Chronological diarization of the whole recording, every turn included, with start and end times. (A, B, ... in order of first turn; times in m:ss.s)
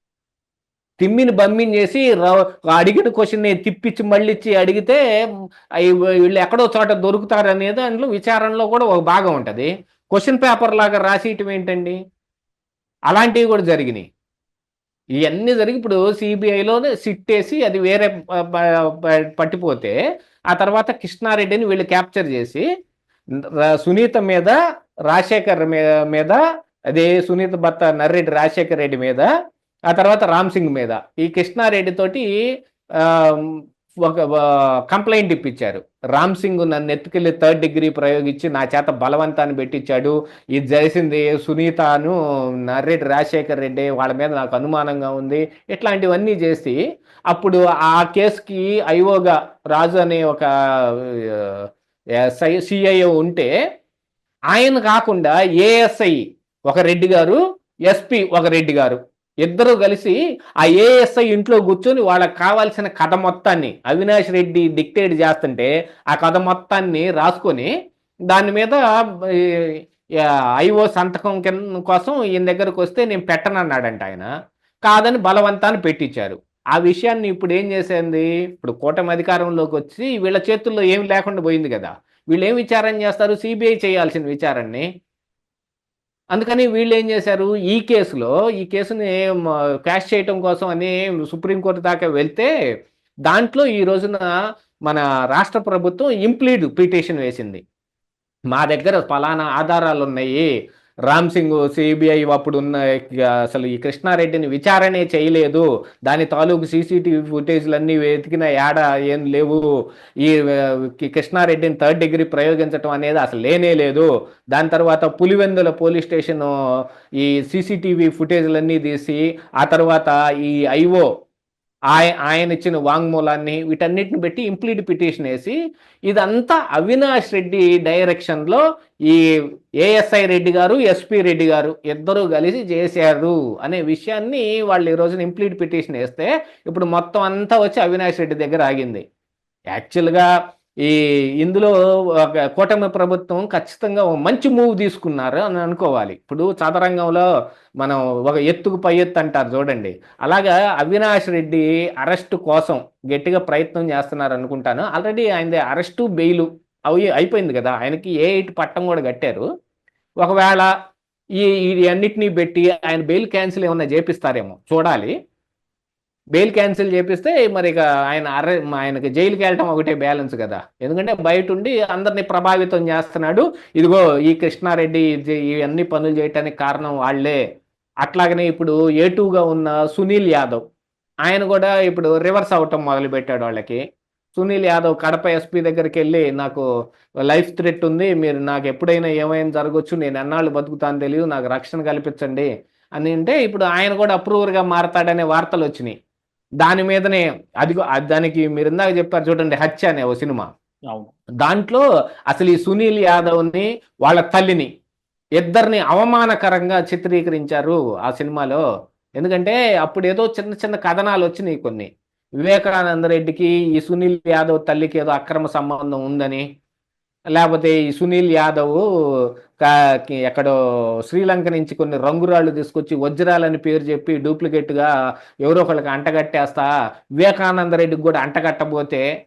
0:01.0-0:05.0 A
0:05.8-0:12.0 A
0:13.1-0:14.1 A
0:15.2-0:19.9 A
0:20.5-0:22.6 A
0:23.6-0:24.5 A
0:25.1-0:26.4 A
0:26.9-0:29.3 A
0:29.9-0:32.3 A
0:33.0-0:42.1 A
0:42.7-0:46.8 A
0:47.3-0:51.6 A
0:52.2-0:53.5 A
0:54.5-1:07.7 A
1:08.3-1:09.8 A
1:10.6-1:14.3 A
1:14.8-1:24.8 A
1:26.3-1:32.5 A
1:33.3-1:34.3 A
1:34.9-1:37.6 A
1:38.5-1:40.5 A
1:41.1-1:49.6 A
1:50.2-1:56.5 A
1:57.2-2:01.1 A
2:01.9-2:05.6 A
2:06.1-2:09.2 A
2:09.8-2:19.0 A
2:19.7-2:20.3 A
2:20.8-2:27.2 A
2:27.8-2:39.4 A
2:40.2-2:40.7 A
2:41.4-2:45.1 A
2:46.3-2:57.4 A
2:58.0-3:00.6 A
3:01.3-3:03.8 A
3:04.3-3:06.6 A
3:07.2-3:12.5 A
3:13.0-3:15.9 A
3:16.6-3:20.5 A
3:21.4-3:24.7 A
3:25.4-3:28.6 A
3:29.2-3:31.9 A
3:32.4-3:36.4 A
3:37.3-3:38.8 A
3:40.2-3:40.5 A
3:41.1-3:44.9 A
3:45.4-3:46.7 A
3:47.2-3:49.0 A